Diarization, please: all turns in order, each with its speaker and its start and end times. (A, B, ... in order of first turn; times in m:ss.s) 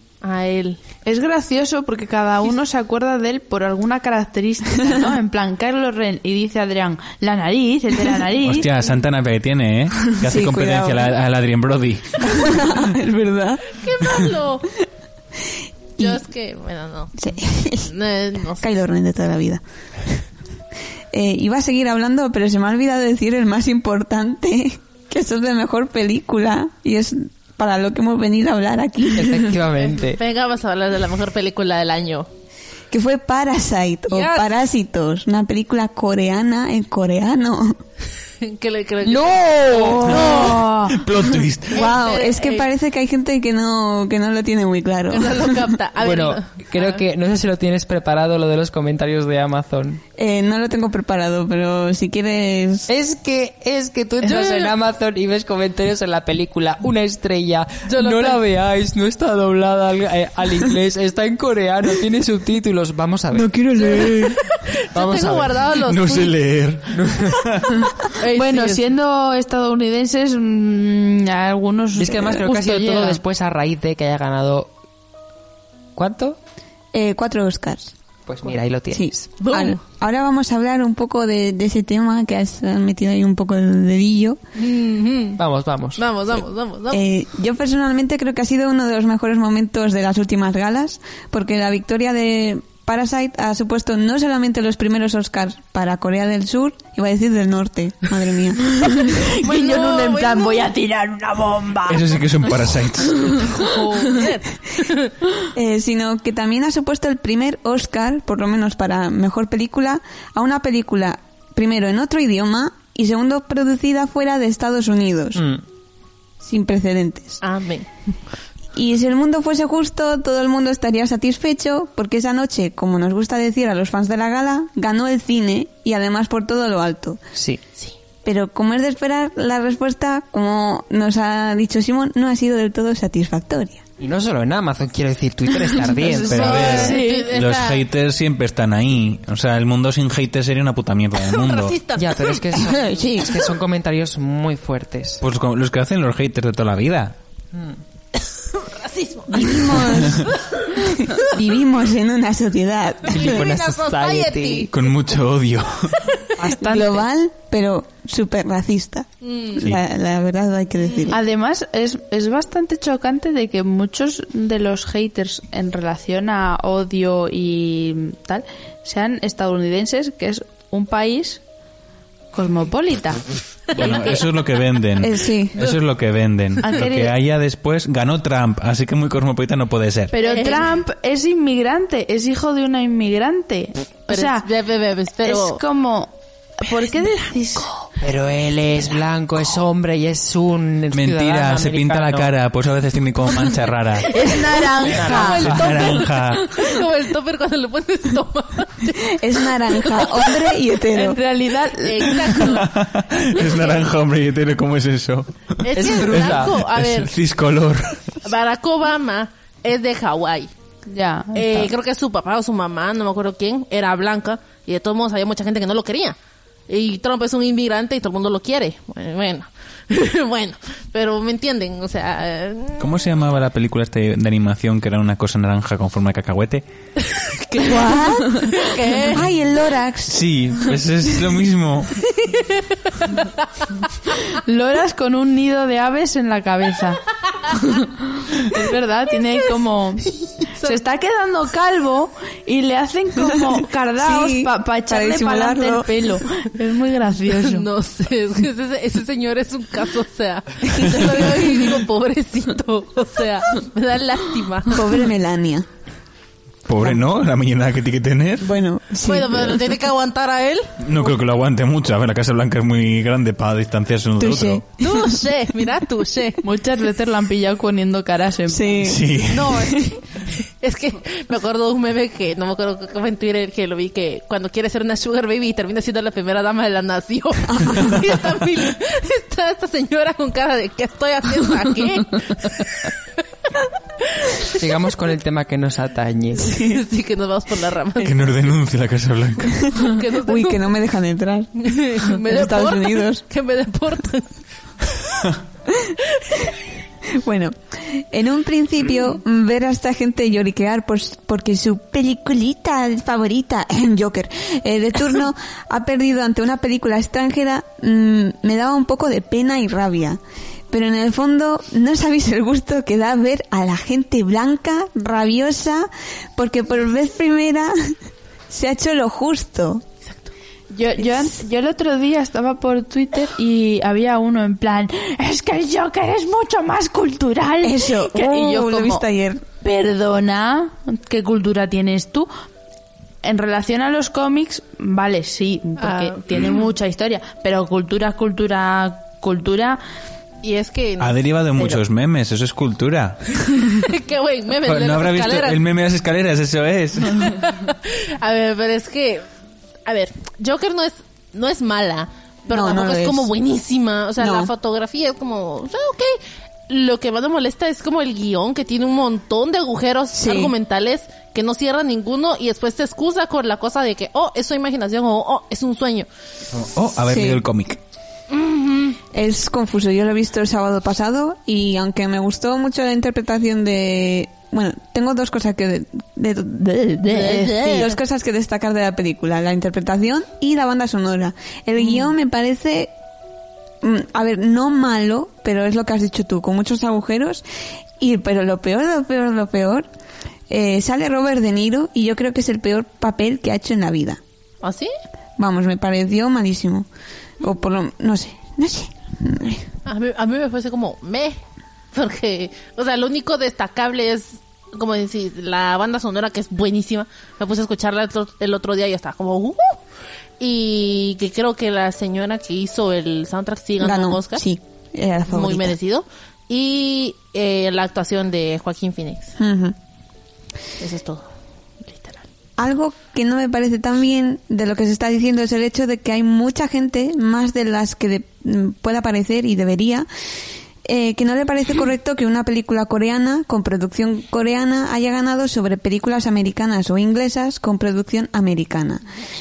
0:00.2-0:00.8 A
0:01.0-0:08.7 B
0:08.4-0:12.8 C
0:10.2-0:11.1 D
0:12.2-0:13.8 D
0:13.8-0:14.7 A
0:16.0-0:18.6 A
0:17.2-0:17.9 D
0:18.6-0:20.2 D
0:21.1-0:29.6 D
0:29.1-0:30.2 E
0:29.8-0:32.3 A
0:32.9-0:37.8 D
0:34.1-0:34.5 A
0:38.4-0:40.6 A
0:39.0-0:40.6 E
0:40.0-0:41.0 B
0:40.0-0:41.9 C
0:41.7-0:45.7 D
0:41.7-0:42.7 A
0:45.1-0:47.0 A
0:46.0-0:50.0 E
0:50.2-0:52.9 D
0:52.9-1:03.5 E
0:54.2-0:54.7 A
0:57.8-0:58.4 A
1:03.3-1:04.4 C
1:04.5-1:06.4 A
1:04.9-1:05.6 E
1:05.8-1:07.9 C
1:06.9-1:07.4 E
1:08.0-1:08.8 A
1:08.3-1:13.2 B
1:12.0-1:14.7 E
1:16.0-1:16.4 E
1:16.9-1:17.9 D
1:18.2-1:19.3 E
1:18.9-1:24.4 D
1:19.4-1:19.8 A
1:24.6-1:25.4 A
1:25.4-1:26.0 E
1:26.0-1:27.1 A
1:26.9-1:39.3 D
1:39.0-1:42.1 B
1:39.4-1:40.7 A
1:41.8-1:43.5 C
1:43.3-1:44.2 B
1:43.4-1:45.1 A
1:45.4-1:55.4 D
1:55.3-1:55.6 E
1:56.4-1:57.4 D
1:57.4-1:57.9 A
1:58.7-2:07.2 D
2:07.3-2:07.6 E
2:08.2-2:13.8 D
2:14.0-2:16.9 E
2:15.9-2:17.3 B
2:16.2-2:17.8 A
2:16.3-2:21.8 C
2:21.2-2:22.4 A
2:22.0-2:25.2 E
2:22.6-2:23.4 D
2:25.2-2:27.1 C
2:27.5-2:27.8 E
2:28.2-2:31.4 A
2:29.3-2:33.4 D
2:30.0-2:30.3 C
2:33.1-2:34.7 E
2:33.1-2:34.7 A
2:34.7-2:36.0 C
2:36.4-2:37.0 E
2:36.4-2:37.0 B
2:36.6-2:41.2 D
2:39.2-2:39.6 A
2:41.1-2:51.4 B
2:52.3-2:54.2 B
2:53.7-2:54.2 A
2:53.7-3:00.1 C
2:55.0-2:55.6 D
2:56.6-2:57.2 B
3:00.1-3:04.5 B
3:00.2-3:00.7 A
3:04.1-3:05.6 A
3:05.2-3:07.7 B
3:07.6-3:07.8 A
3:08.0-3:12.3 E
3:10.9-3:14.1 C
3:14.0-3:20.4 A
3:14.1-3:15.6 B
3:14.8-3:15.9 E
3:15.2-3:16.5 C
3:19.0-3:21.2 D
3:20.9-3:22.6 B
3:21.7-3:22.7 A
3:22.4-3:28.1 C
3:23.4-3:23.8 A
3:25.6-3:27.1 A
3:25.7-3:26.6 E
3:28.2-3:30.5 A
3:30.9-3:31.7 B
3:31.3-3:36.2 A
3:36.7-3:43.0 A
3:42.8-3:46.6 C
3:47.0-3:49.2 A
3:47.6-3:50.2 D
3:50.1-3:52.0 C
3:52.2-3:53.4 A
3:54.3-3:57.0 B
3:57.6-4:07.7 B
4:03.3-4:06.1 D
4:07.2-4:15.0 A
4:10.7-4:11.6 D
4:10.8-4:11.1 C
4:14.6-4:15.6 D
4:16.6-4:18.5 C
4:18.4-4:19.6 D
4:19.0-4:20.8 A
4:20.8-4:24.6 C
4:24.2-4:25.1 D
4:24.8-4:26.4 A
4:26.4-4:28.8 B
4:28.5-4:30.0 D
4:28.8-4:29.5 C
4:29.3-4:43.0 A
4:37.5-4:38.0 D
4:44.0-4:44.6 A
4:44.5-4:46.5 E
4:46.4-4:46.8 D
4:46.4-4:48.4 A
4:48.0-4:49.8 C
4:49.6-4:53.2 D
4:49.7-4:50.7 A
4:51.6-4:55.2 A
4:56.1-4:56.5 A
4:57.0-5:17.9 D
5:18.5-5:19.8 D
5:20.0-5:20.3 A
5:20.7-5:28.7 B
5:21.0-5:21.3 D
5:27.6-5:29.4 D
5:28.2-5:29.0 A
5:29.6-5:32.3 B
5:33.2-5:39.8 B
5:35.8-5:36.6 A
5:40.4-5:41.2 A
5:41.0-5:43.9 C
5:43.6-5:45.6 A
5:44.6-5:47.3 C
5:47.1-5:49.2 A
5:49.8-6:06.1 A
5:52.5-5:53.3 D
5:54.2-5:54.5 D
6:00.1-6:00.5 D
6:06.5-6:07.8 C
6:07.1-6:07.4 D
6:08.3-6:09.0 A
6:09.1-6:22.9 D
6:17.1-6:18.0 A
6:23.8-6:27.4 D
6:28.0-6:29.9 D
6:30.5-6:34.2 D
6:34.6-6:34.9 A
6:35.4-6:36.9 D
6:37.4-6:39.7 D
6:39.8-6:41.4 A
6:41.9-6:49.8 A
6:50.4-6:54.4 A
6:53.8-6:55.8 D
6:55.3-6:59.3 A
6:59.4-6:59.8 D
7:00.8-7:01.2 A
7:01.8-7:02.2 A
7:02.6-7:10.1 D
7:10.8-7:19.0 D